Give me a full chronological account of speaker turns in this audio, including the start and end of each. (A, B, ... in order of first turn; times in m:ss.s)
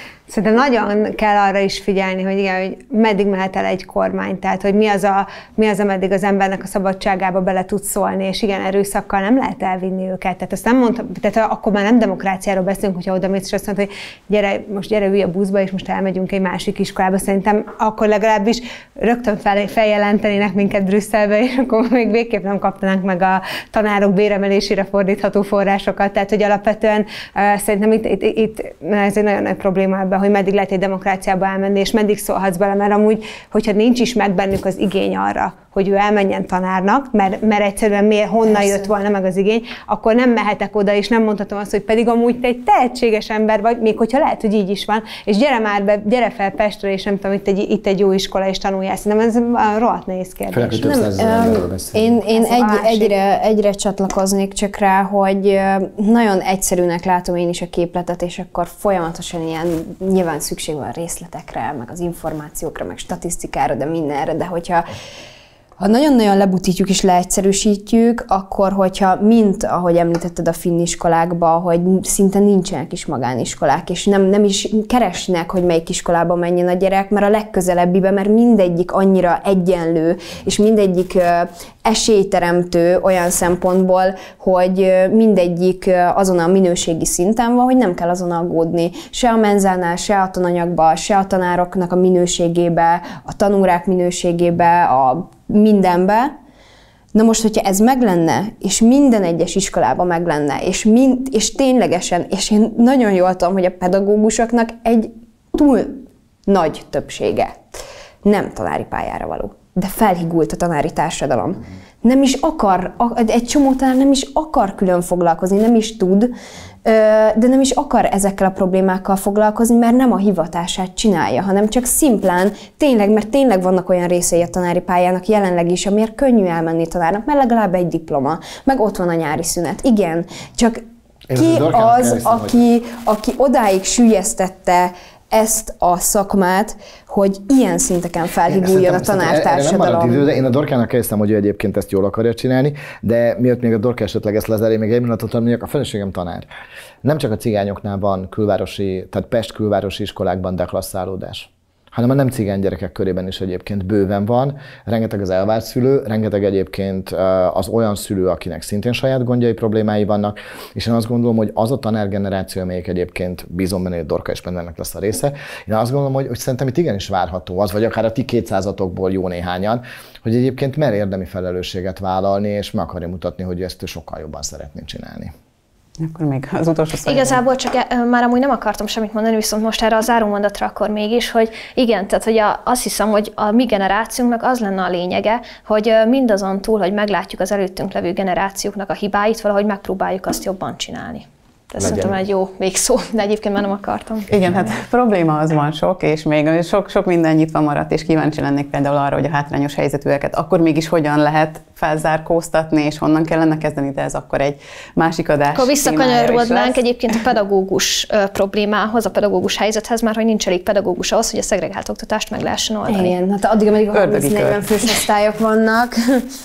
0:00.3-0:51.0 A
0:38.5-0:38.9 B
0:50.5-0:52.1 C
0:50.8-1:04.8 B
0:52.3-0:53.1 A
1:05.8-1:36.3 B
1:37.1-1:47.6 B
1:48.2-2:10.8 B
2:11.3-2:12.6 C
2:11.4-2:20.2 B
2:18.5-2:26.5 C
2:27.0-2:55.3 C
2:56.0-2:57.4 D
2:57.0-3:14.3 E
3:11.8-3:12.2 C
3:14.3-3:26.8 D
3:25.6-3:33.1 E
3:32.9-3:36.2 B
3:33.9-3:34.6 D